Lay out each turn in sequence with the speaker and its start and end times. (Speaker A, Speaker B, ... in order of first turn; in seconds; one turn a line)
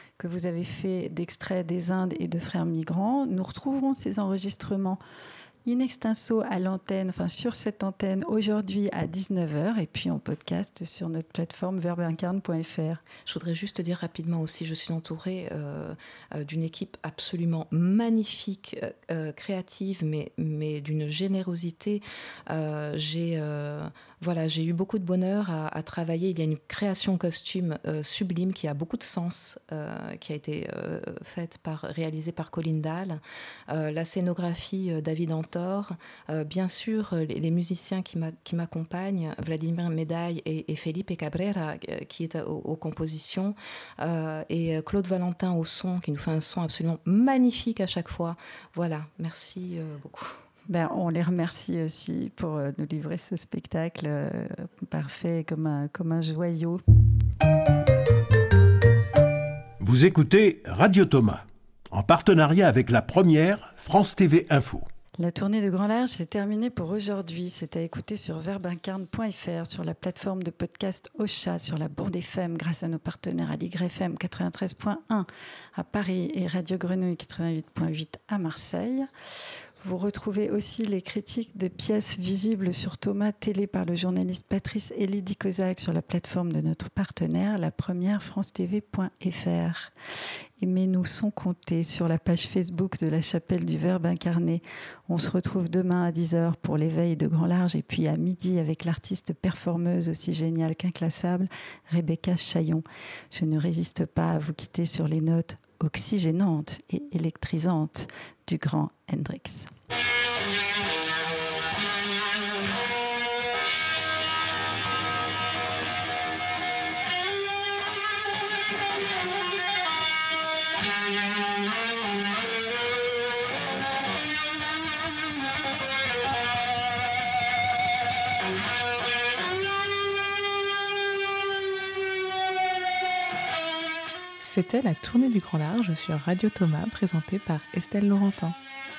Speaker A: 0.2-5.0
Speaker A: 5.7-13.0
Speaker B: 13.2-50.4
Speaker A: 50.7-56.8
Speaker C: 59.8-64.9
Speaker A: 65.2-79.1
Speaker A: 79.8-109.7
Speaker D: 134.4-138.6